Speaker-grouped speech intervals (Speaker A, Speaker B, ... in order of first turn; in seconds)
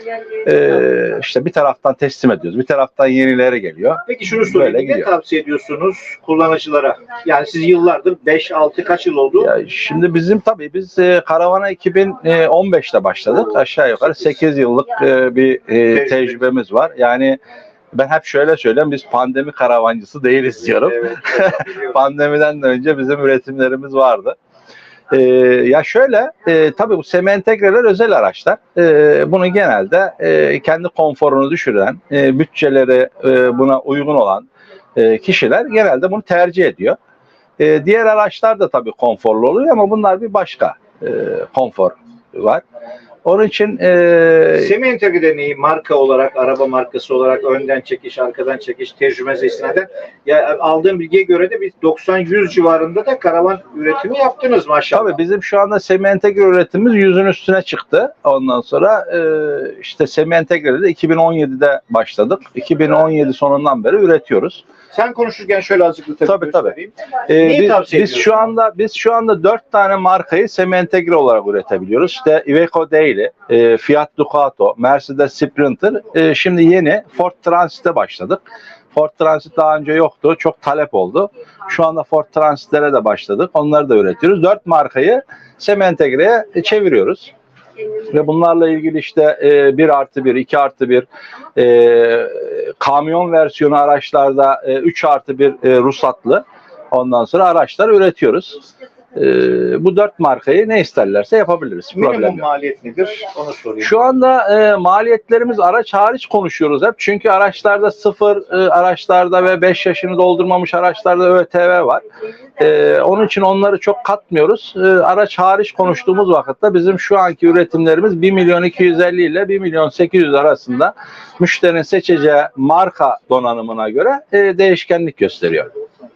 Speaker A: 0.4-5.1, 9.4-17.4, 17.9-24.4, 25.1-37.0, 37.6-42.6, 43.2-44.7, 54.9-64.6, 66.2-66.7, 67.3-87.3, 88.1-98.6, 99.2-102.5, 103.8-112.0, 112.6-125.7
Speaker B: 4.1-9.5, 16.1-16.4, 20.8-22.0, 44.6-55.2, 64.9-68.5, 102.0-103.9